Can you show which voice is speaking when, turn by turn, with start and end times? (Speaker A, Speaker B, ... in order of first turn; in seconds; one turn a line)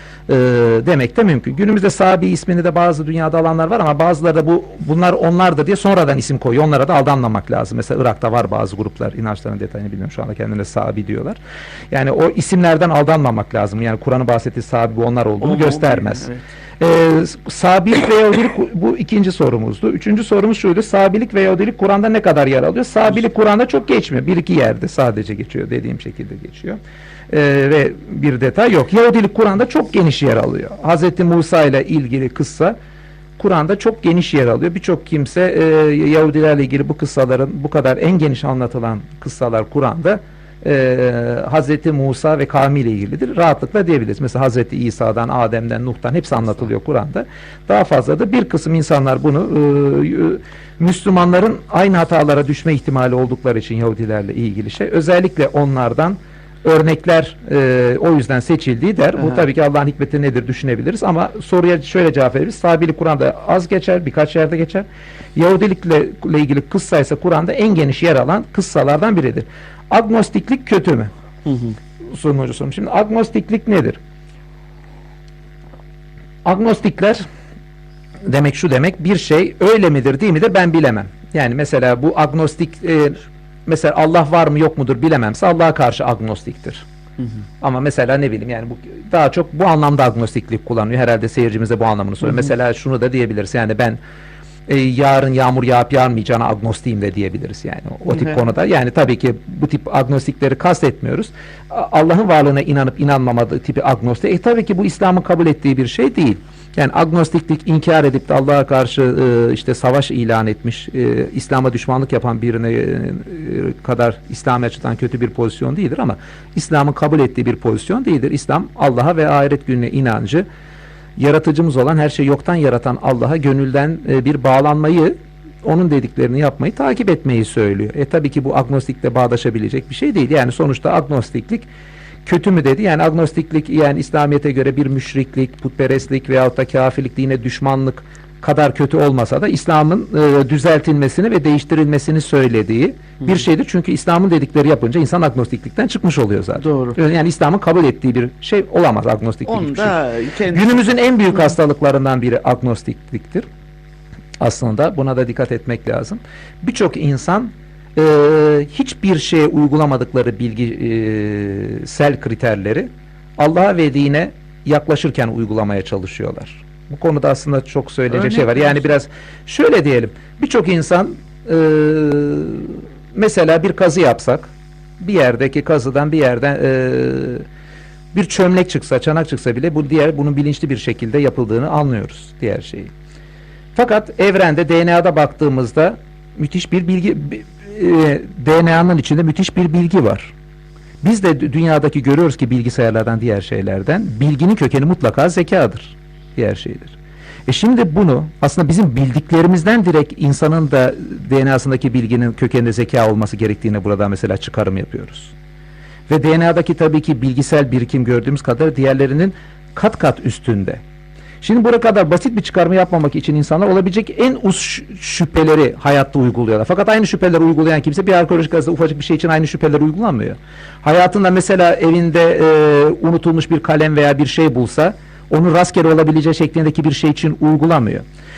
Speaker A: 0.3-11.4
Speaker A: 11.9-16.3
Speaker B: 15.4-16.4
Speaker A: 16.8-32.8
Speaker A: 33.4-71.1
Speaker B: 71.5-71.7
Speaker A: 72.1-74.0
Speaker A: 76.4-77.2
Speaker A: 78.2-86.8
Speaker A: 87.6-94.0
Speaker A: 94.7-120.5
Speaker B: 98.1-98.4
Speaker A: 121.2-131.7
Speaker A: 132.2-150.0
Speaker B: 146.6-147.0
Speaker B: 149.4-150.8
Speaker A: 150.5-153.4
Speaker A: 154.4-177.4
Speaker B: 168.1-168.8
Speaker A: 178.1-182.9
Speaker A: 183.7-190.3
Speaker A: 191.0-205.3
Speaker A: 206.1-210.8
Speaker A: 211.4-228.1